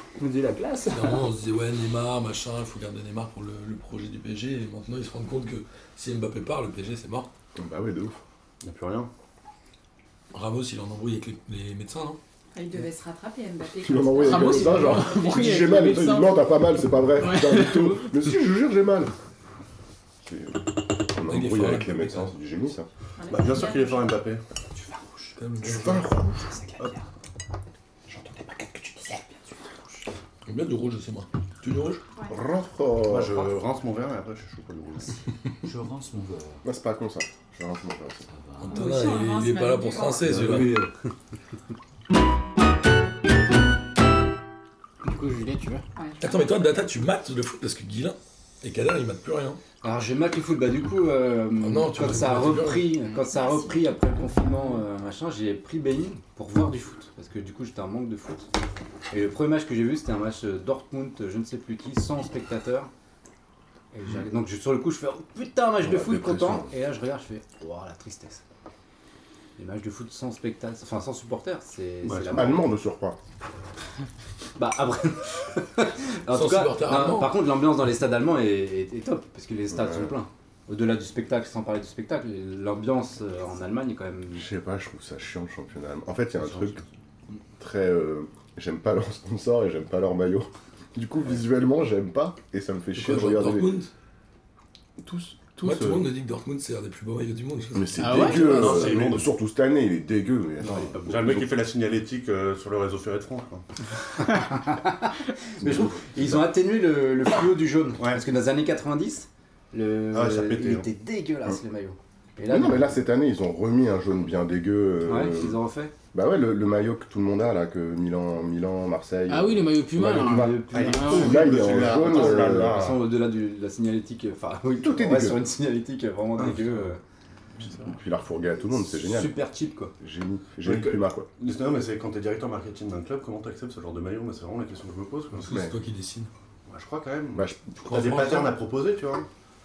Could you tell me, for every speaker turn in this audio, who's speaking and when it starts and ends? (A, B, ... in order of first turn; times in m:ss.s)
0:00.2-0:01.2 A
0:00.9-0:07.3 B
0:07.6-0:08.2 C
0:08.6-0:09.1 D
0:10.3-0:12.2 B
0:12.5-0:16.0 E
0:13.8-0:19.1 C
0:14.2-0:16.4 F
0:17.2-0:18.1 F
0:20.2-0:22.9 C
0:21.3-0:22.3 B
0:23.2-0:24.2 E
0:23.3-0:24.4 D
0:24.8-0:27.0 A
0:25.4-0:26.1 B
0:25.6-0:27.0 D
0:28.4-0:29.4 A
0:30.4-0:32.0 B
0:32.3-0:33.5 C
0:33.0-0:35.2 D
0:35.6-0:36.6 A
0:36.6-0:38.2 C
0:38.3-0:39.0 A
0:38.6-0:40.8 B
0:38.7-0:40.4 E
0:40.3-0:40.9 A
0:45.0-0:45.8 F
0:46.0-0:46.4 E
0:46.2-0:49.6 B
0:49.8-0:58.5 G
0:51.6-0:52.9 B
0:53.3-0:54.6 E
0:59.1-1:02.9 G
1:03.9-1:08.4 G
1:05.8-1:06.7 C
1:09.6-1:12.7 G
1:12.0-1:12.5 D
1:12.3-1:13.2 C
1:14.6-1:24.4 G
1:16.3-1:17.4 B
1:19.7-1:20.1 C
1:24.3-1:26.8 C
1:26.5-1:26.8 G
1:27.6-1:33.7 C
1:33.0-1:33.9 B
1:35.0-1:35.9 C
1:35.6-1:39.0 B
1:35.7-1:36.0 D
1:37.7-1:41.5 C
1:38.0-1:38.4 F
1:38.2-1:39.3 D
1:40.6-1:43.6 D
1:44.4-1:53.0 G
1:45.6-1:46.4 C
1:50.1-1:50.9 D
1:52.5-1:55.6 C
1:55.0-1:55.9 G
1:56.1-2:02.8 C
1:59.3-2:01.5 F
2:00.1-2:07.0 G
2:00.7-2:03.1 D
2:04.8-2:05.4 C
2:06.4-2:06.6 D
2:07.6-2:07.9 F
2:07.8-2:09.3 C
2:08.9-2:09.9 G
2:10.0-2:11.3 C
2:10.6-2:15.5 D
2:15.4-2:16.3 B
2:15.5-2:15.7 C
2:16.7-2:19.3 D
2:17.3-2:17.8 C
2:17.8-2:18.5 B